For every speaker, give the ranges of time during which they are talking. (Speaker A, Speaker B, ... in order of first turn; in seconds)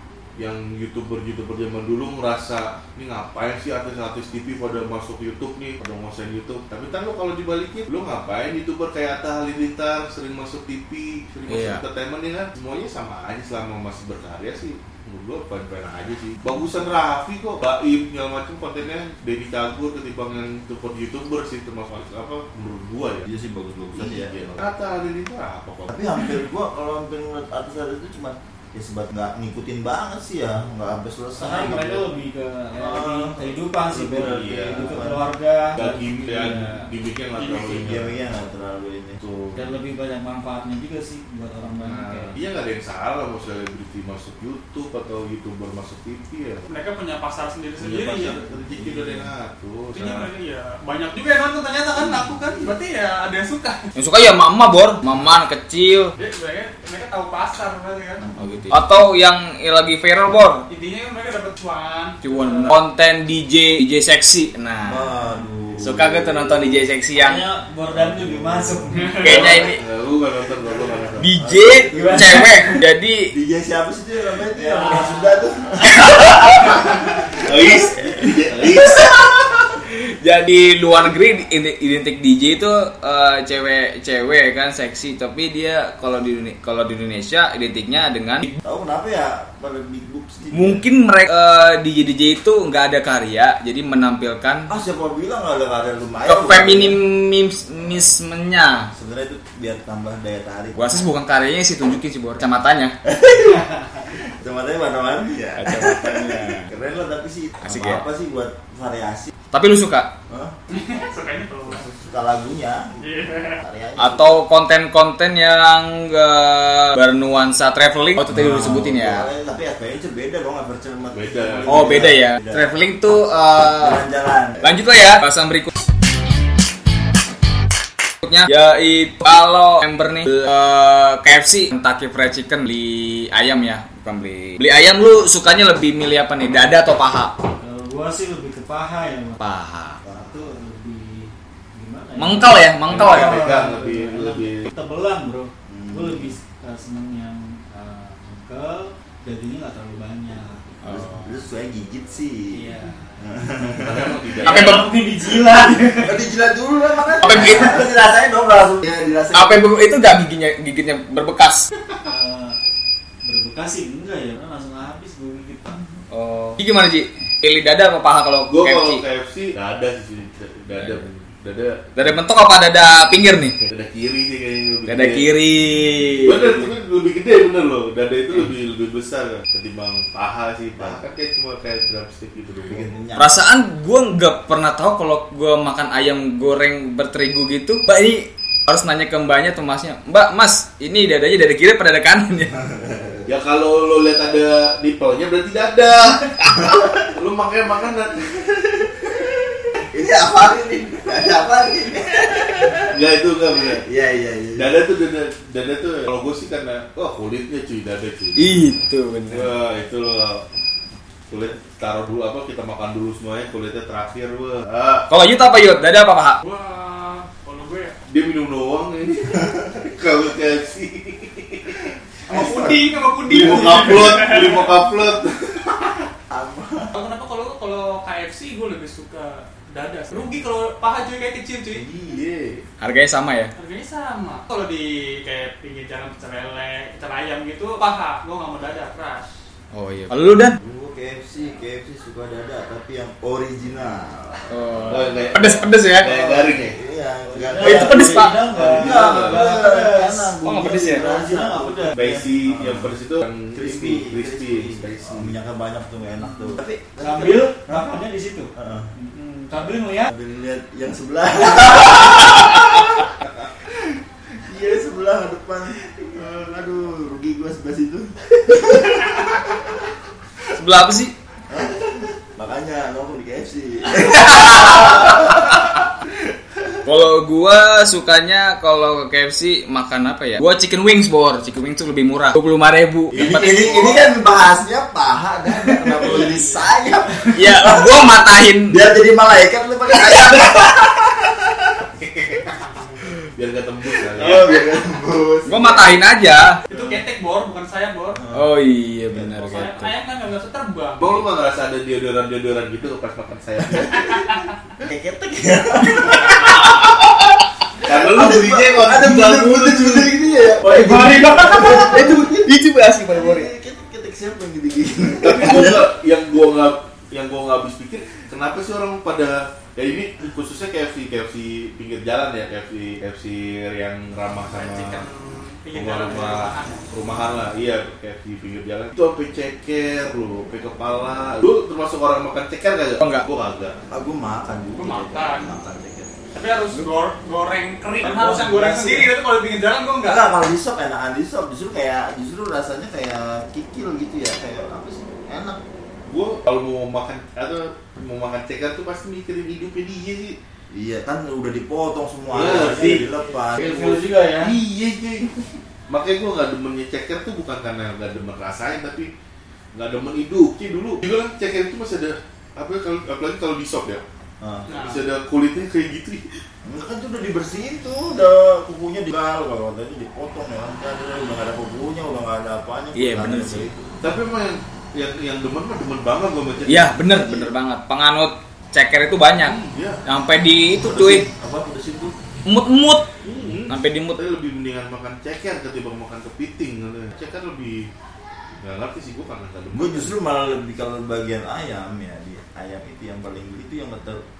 Speaker A: 0.4-23.3, 23.9-25.9, 34.1-35.0, 35.8-38.2, 39.2-39.7, 41.8-46.6, 47.8-50.3, 68.0-71.3, 77.4-79.1, 121.1-121.9, 142.9-144.7, 153.7-154.9, 168.5-171.9, 173.6-175.3, 176.2-182.9, 193.2-198.7, 202.9-203.8, 204.6-208.5, 209.3-210.4, 211.3-215.1, 218.1-221.9, 223.3-225.8, 231.7-232.6, 244.9-246.8, 248.5-249.6, 251.9-255.3, 283.1-284.0, 292.0-292.5, 293.3-294.5, 296.7-297.0, 301.0-304.3, 307.8-310.2, 315.2-325.1, 325.7-333.8, 346.1-350.4, 352.3-353.1, 353.9-355.3, 355.9-359.1, 359.7-364.0, 364.6-366.3, 374.0-376.9, 379.4-380.0, 383.2-387.9, 388.6-390.1
Speaker B: 11.5-11.8, 54.0-56.1, 58.7-60.6, 62.2-65.1, 65.8-67.4, 69.2-69.8, 71.2-73.3, 75.9-76.8, 78.7-88.5, 90.5-94.7, 96.2-98.9, 100.7-102.9, 105.5-106.7, 107.6-108.0, 109.5-110.2, 114.0-119.2, 121.7-124.0, 124.6-125.7, 128.2-137.3, 139.4-140.0, 142.2-143.4, 150.8-151.3, 154.4-154.9, 157.2-157.9, 159.3-161.7, 166.1-169.0, 171.9-173.6, 174.9-176.7, 183.2-192.7, 208.3-209.5, 215.1-216.4, 232.8-233.5, 239.7-240.6, 244.5-246.1, 247.6-248.4, 250.4-251.1, 270.5-271.1, 273.9-275.8, 276.8-283.8, 285.6-286.4, 287.3-288.8, 290.1-290.6, 295.5-296.6, 298.3-299.9, 305.8-307.4, 310.6-313.5, 333.0-333.2, 372.9-373.7, 376.7-381.2, 382.4-383.1, 383.7-384.2
Speaker C: 23.2-24.6, 25.9-32.0, 32.8-35.2, 37.8-39.2, 48.4-49.3, 58.2-58.8, 64.8-66.8, 71.2-72.8, 73.3-77.5, 88.6-90.8, 94.7-97.0, 98.9-101.0, 103.0-109.3, 110.3-110.5, 111.7-114.4, 118.2-122.7, 123.8-124.8, 145.7-146.3, 150.8-152.7, 153.2-154.2, 156.0-159.6, 182.7-183.3, 192.6-193.2, 199.8-202.9, 203.8-204.7, 222.3-222.8, 226.3-226.9, 240.6-245.2, 246.0-252.9, 253.5-258.0, 258.6-258.9, 260.1-263.5, 264.4-269.7, 271.5-275.9, 283.1-288.1, 288.7-291.8, 294.1-296.0, 298.1-298.5, 303.6-303.9, 304.8-306.7, 307.8-312.5, 313.1-315.8, 333.9-336.1, 340.0-345.6, 350.7-353.9, 364.4-364.7, 366.6-373.9, 376.8-377.5, 380.7-382.1, 389.7-394.2
Speaker D: 31.4-36.9, 39.5-42.4, 67.2-69.5, 71.9-72.8, 74.5-75.4, 137.6-139.4, 140.0-150.8, 152.5-153.4, 154.4-156.2, 162.0-162.6, 163.2-165.8, 247.2-252.2, 257.0-260.1, 338.0-339.1, 352.4-354.6
Speaker E: 37.3-38.0, 46.6-48.4, 49.9-53.8, 56.2-58.2, 60.7-62.7, 68.9-69.5, 110.7-111.9, 113.0-113.6, 216.4-218.0, 222.3-224.7, 226.9-231.8, 233.6-239.3, 292.6-293.1, 296.7-298.2, 299.3-301.3, 304.1-304.4, 324.5-326.9, 334.8-335.5, 336.3-340.2, 364.7-365.0